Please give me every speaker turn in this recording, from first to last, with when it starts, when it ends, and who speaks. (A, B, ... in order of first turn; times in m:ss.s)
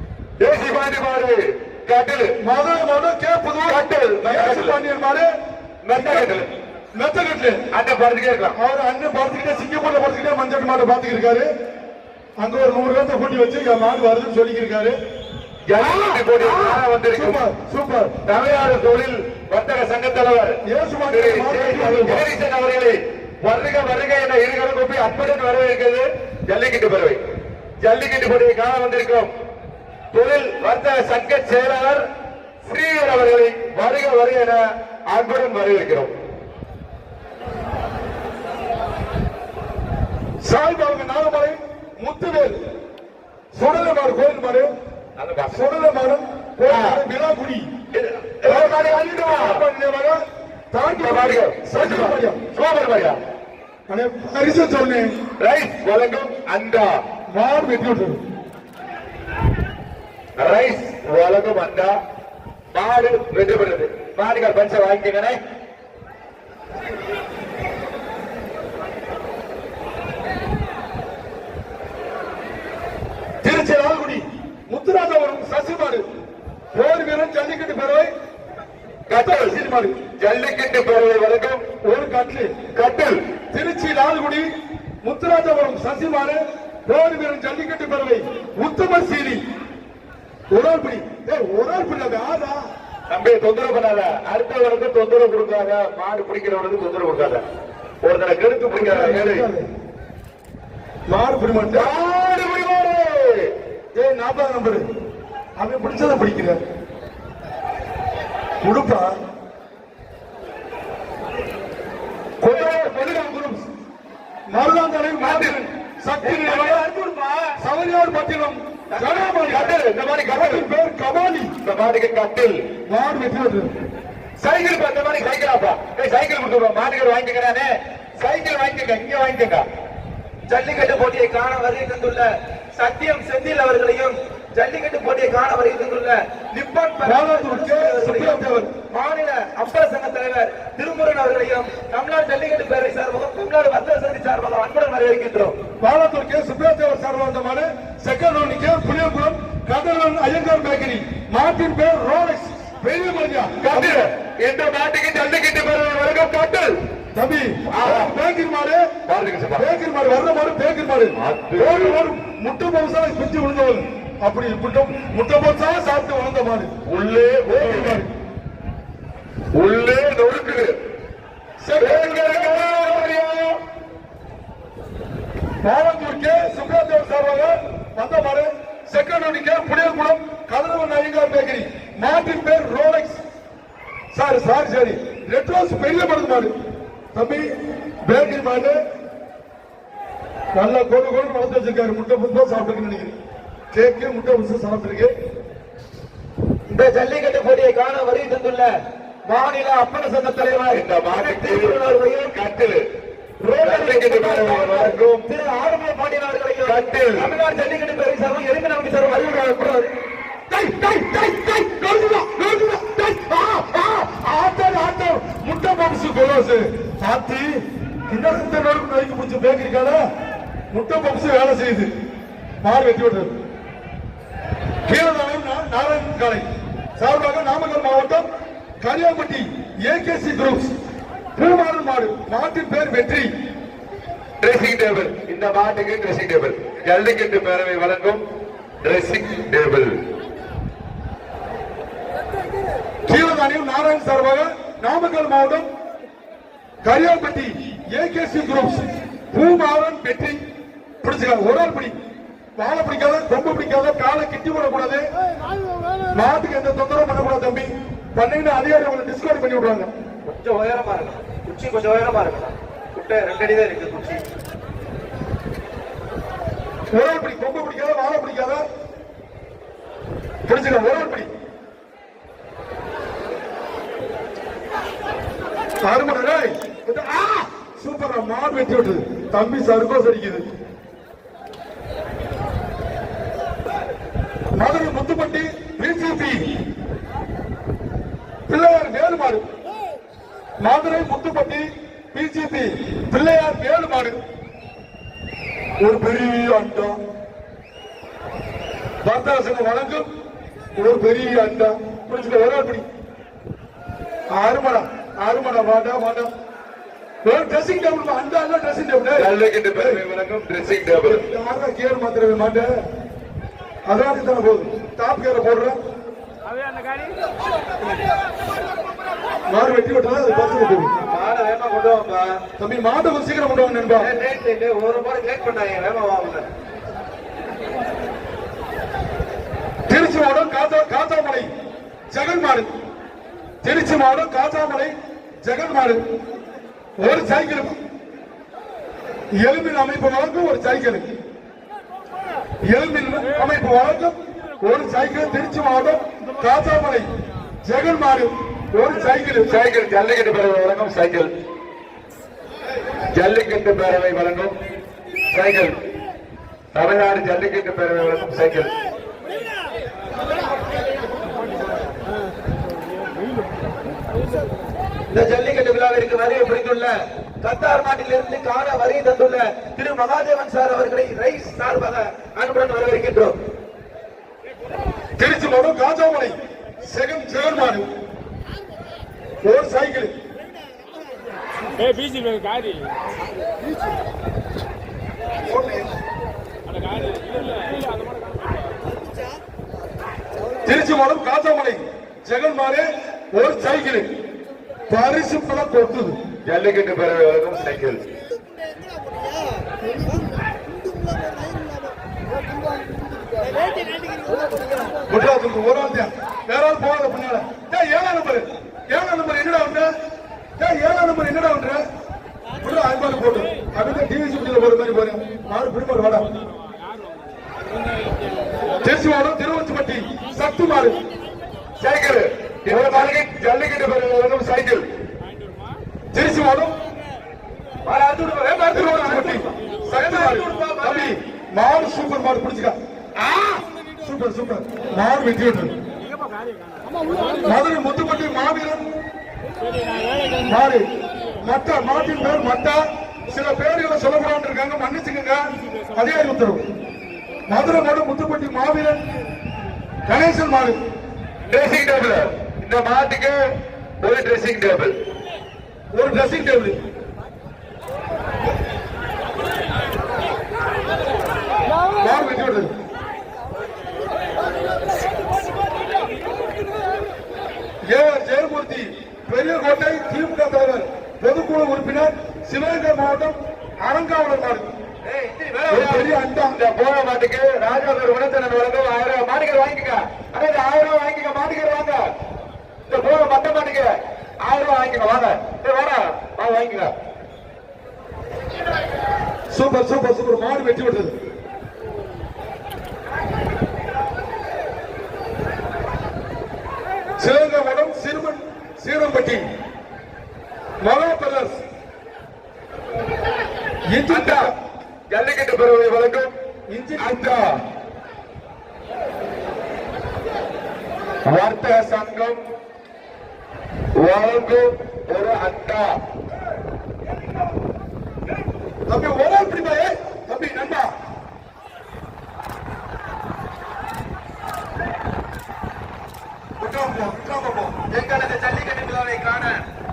0:00.4-0:02.4 A
0:02.4-0:05.3 B
0:03.7-0:04.8 A
0:05.8-0:06.5 A
0:05.9-0:06.3 B
0:07.0-0:07.6 B
0:07.7-0:08.6 A
0:08.6-0:11.5 B
0:12.4-0:15.0 B
0:15.7-0:17.4 A
0:15.8-0:18.1 B
0:18.1-0:20.6 A
0:20.7-0:22.2 B
0:21.1-0:27.2 A
0:27.8-0:29.3 A
0:30.1-0:32.0 A
0:32.6-0:36.1 A
0:40.4-0:42.6 B
0:43.5-0:44.7 B
0:45.2-0:45.6 A
0:45.5-0:47.7 B
0:46.7-0:47.0 A
0:47.9-0:49.6 A
0:48.4-0:50.2 B
0:50.7-0:52.4 B
0:51.0-0:53.2 A
0:53.9-0:55.1 B
0:55.4-0:56.9 A
0:57.3-0:58.2 B
1:00.4-1:01.9 A
1:02.7-1:05.4 A
1:13.4-1:16.0 B
1:16.7-1:18.1 B
1:19.1-1:19.6 A
1:19.1-1:19.9 B
1:20.2-1:21.6 A
1:21.9-1:22.6 B
1:22.7-1:23.2 A
1:23.5-1:24.5 B
1:25.0-1:29.4 B
1:30.5-1:32.6 B
1:33.1-1:37.4 A
1:38.0-1:39.5 A
1:38.7-1:39.6 B
1:41.1-1:41.9 B
1:41.7-1:43.5 A
1:43.9-1:44.8 B
1:45.6-1:46.6 B
1:48.6-1:49.1 B
1:52.4-1:53.5 A
1:52.5-1:52.9 B
1:54.5-1:56.8 B
1:55.2-1:55.6 A
1:56.2-1:57.5 C
1:57.6-1:59.7 B
1:58.9-1:59.8 C
1:59.5-2:00.7 A
2:00.3-2:01.5 B
2:01.6-2:02.6 A
2:02.9-2:03.7 B
2:04.4-2:09.6 A
2:10.5-2:25.6 C
2:17.0-2:18.7 B
2:25.8-2:34.0 B
2:33.6-2:36.7 A
2:37.2-2:38.9 B
2:37.7-2:38.1 A
2:39.1-2:39.7 A
2:39.6-2:46.7 B
2:41.2-2:42.0 A
2:46.9-2:48.0 A
2:47.5-2:48.1 B
2:49.6-2:50.8 A
2:51.6-2:53.2 B
2:51.8-2:53.6 A
2:55.6-3:03.2 B
3:04.1-3:06.5 B
3:07.1-3:07.5 B
3:08.1-3:08.8 B
3:10.6-3:13.2 B
3:13.7-3:15.1 B
3:16.7-3:18.7 C
3:19.3-3:22.4 C
3:20.7-3:22.8 A
3:23.4-3:29.9 C
3:23.6-3:25.2 A
3:26.6-3:27.3 A
3:30.5-3:40.0 B
3:40.7-3:41.9 B
3:42.6-3:43.3 B
3:44.9-3:46.4 B
3:47.0-3:48.3 B
3:48.8-3:50.7 B
3:51.4-3:53.3 B
3:54.4-3:58.2 A
3:58.8-3:59.9 A
4:03.1-4:05.7 B
4:06.8-4:10.4 B
4:11.0-4:11.9 B
4:12.6-4:15.0 B
4:16.1-4:19.9 B
4:20.2-4:24.2 C
4:26.9-4:28.6 B
4:30.5-4:31.3 B
4:35.8-4:40.4 B
4:44.6-4:46.4 B
4:48.5-4:49.4 B
4:50.6-4:54.2 B
4:55.8-4:57.0 B
4:59.0-5:00.1 B
5:00.8-5:02.8 B
5:04.3-5:06.3 B
5:07.2-5:10.0 B
5:09.2-5:11.2 A
5:11.0-5:12.7 B
5:13.9-5:15.8 B
5:19.5-5:20.9 B
5:21.0-5:22.4 C
5:22.6-5:24.1 B
5:24.0-5:26.5 C
5:29.9-5:31.5 B
5:32.1-5:32.7 B
5:33.6-5:36.0 B
5:37.0-5:37.8 B
5:39.4-5:41.0 B
5:42.7-5:47.0 B
5:47.6-5:49.6 B
5:49.5-5:51.3 A
5:53.1-5:54.6 A
5:55.3-5:55.8 A
5:56.7-5:58.7 A
6:05.1-6:13.4 C
6:15.2-6:17.9 B
6:19.4-6:20.1 B
6:25.5-6:25.9 B
6:30.6-6:34.1 B
6:34.9-6:36.2 B
6:36.5-6:38.0 A
6:45.1-6:49.9 B
6:50.6-6:51.8 B
6:52.6-6:56.3 B
6:58.8-7:01.0 B
7:01.8-7:04.8 A
7:02.7-7:03.1 B
7:06.1-7:06.7 B
7:07.8-7:11.1 C
7:08.7-7:12.8 B
7:13.2-7:13.6 C
7:14.0-7:15.7 B
7:17.4-7:18.8 B
7:20.4-7:20.9 B
7:21.4-7:25.4 B
7:25.9-7:26.6 B
7:27.5-7:29.0 B
7:30.1-7:30.8 B
7:31.5-7:33.4 A
7:34.0-7:34.9 A
7:35.9-7:36.8 B
7:42.0-7:42.7 B
7:47.9-7:54.7 B
7:55.0-7:56.1 C
7:55.7-7:56.6 B
7:56.5-8:02.0 A
8:02.9-8:03.9 A
8:04.4-8:06.9 A
8:09.5-8:11.1 B
8:17.2-8:19.4 B
8:20.8-8:21.6 B
8:23.9-8:24.5 B
8:24.1-8:24.5 A
8:25.1-8:26.3 A
8:26.7-8:27.3 B
8:27.0-8:27.4 A
8:31.3-8:32.4 A
8:34.0-8:35.9 A
8:38.9-8:40.9 B
8:46.6-8:47.8 B
8:47.9-8:49.6 C